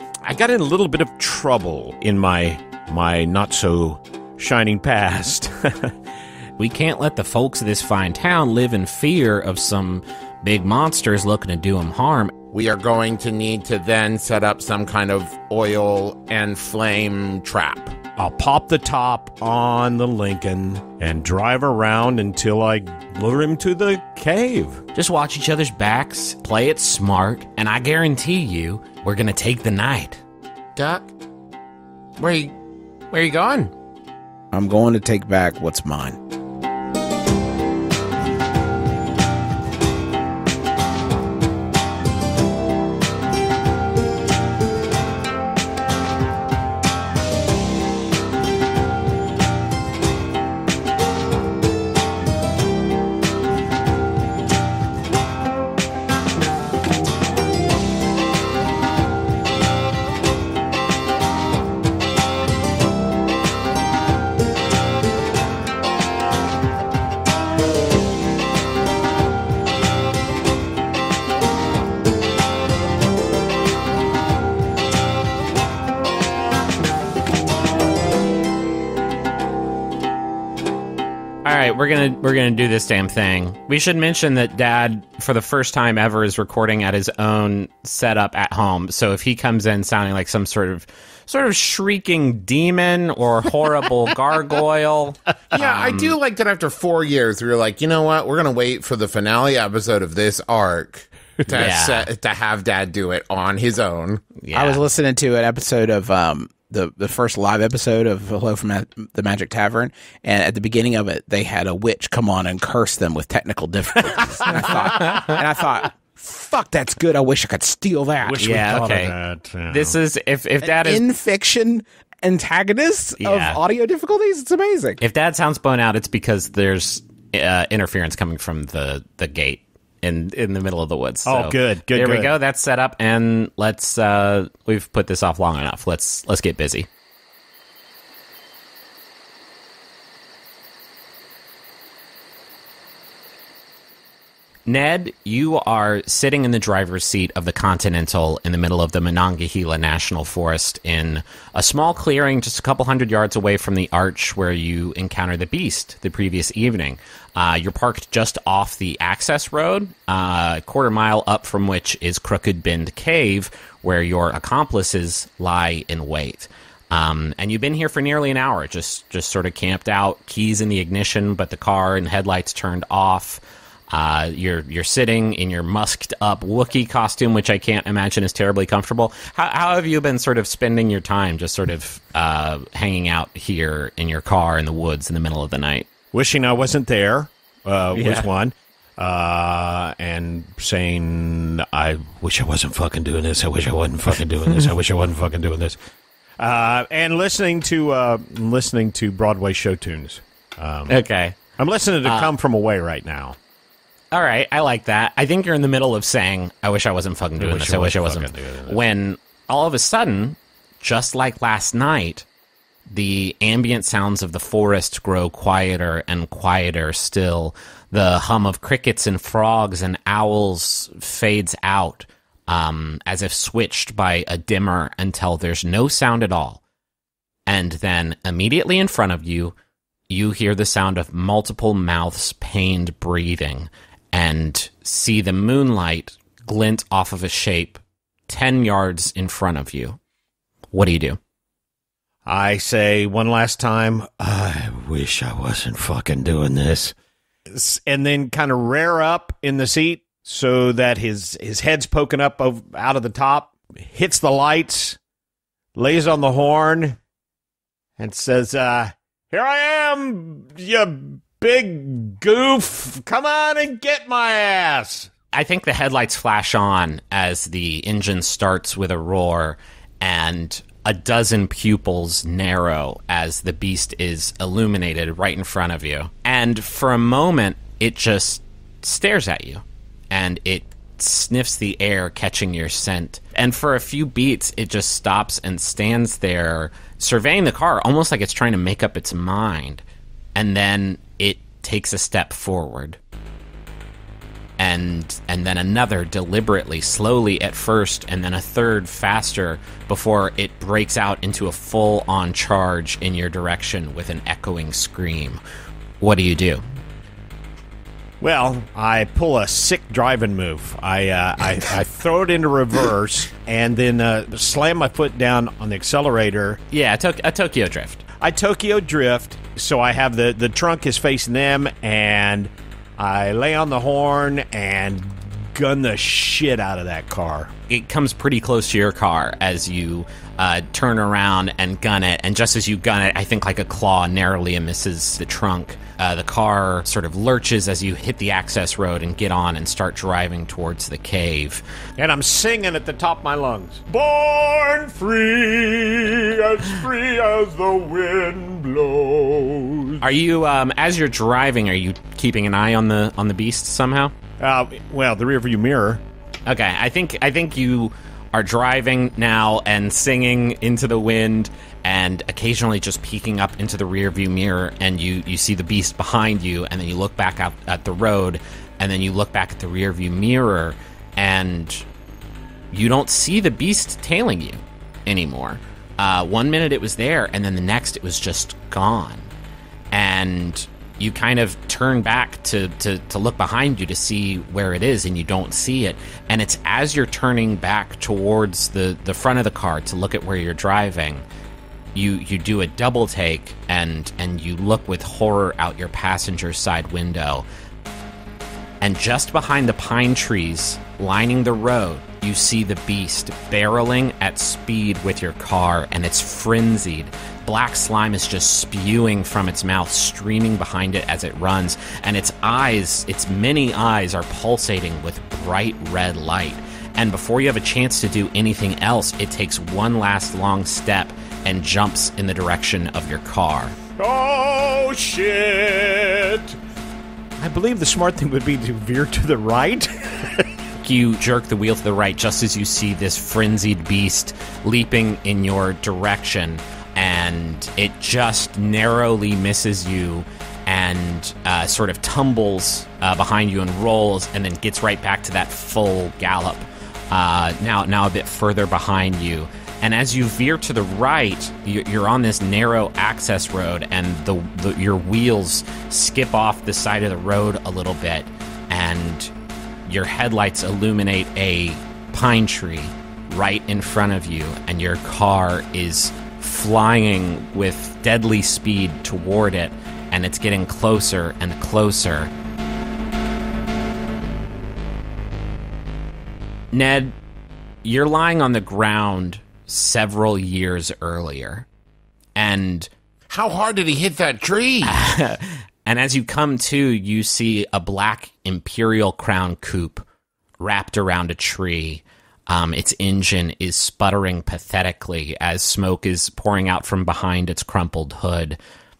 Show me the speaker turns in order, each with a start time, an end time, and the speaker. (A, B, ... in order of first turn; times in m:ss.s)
0:00.2-0:05.9 A
0:06.6-0:12.3 B
0:12.5-0:18.0 C
0:18.2-0:24.8 A
0:24.9-0:30.2 B
0:30.8-0:31.1 C
0:32.2-0:32.5 C
0:33.1-0:33.7 C
0:34.5-0:36.2 D
1:21.4-1:36.1 B
1:35.5-1:44.2 C
1:41.5-1:42.1 B
1:44.4-1:44.8 B
1:44.5-1:58.9 D
1:54.1-1:55.3 A
1:58.2-2:00.0 A
1:58.4-1:59.1 B
1:59.7-2:01.0 B
2:00.6-2:05.0 D
2:03.2-2:03.6 B
2:05.0-2:16.9 B
2:11.2-2:12.4 A
2:24.7-3:05.9 B
3:06.1-3:15.8 A
3:07.9-3:08.3 B
3:16.4-3:21.0 A
3:20.9-3:21.4 B
3:21.6-3:23.4 A
3:22.0-3:22.3 B
3:24.1-3:32.2 B
3:27.4-3:28.8 A
3:32.9-3:46.6 B
3:47.5-3:49.5 B
3:50.1-4:00.0 B
4:00.7-4:01.2 B
4:02.2-4:06.9 A
4:07.5-4:15.0 A
4:15.8-4:17.0 A
4:18.0-4:25.1 A
4:25.3-4:49.8 B
4:50.4-4:53.0 B
4:54.6-5:05.4 B
5:06.0-5:06.6 B
5:08.2-5:16.6 A
5:16.7-5:18.0 B
5:18.2-5:27.5 A
5:27.7-5:41.6 B
5:42.0-5:50.0 A
5:50.0-5:54.1 B
5:54.4-5:56.0 A
5:56.4-6:11.8 B
6:12.7-6:19.3 B
6:19.9-6:31.2 B
6:31.9-6:37.4 B
6:38.8-7:03.8 B
7:04.0-7:06.6 A
7:07.4-7:10.5 A
7:10.8-7:39.3 B
7:39.9-7:52.3 B
7:56.7-7:57.1 B
7:57.8-8:01.6 B
8:02.4-8:02.9 B
8:03.3-8:05.0 C
8:04.8-8:10.0 B
8:10.6-8:18.6 B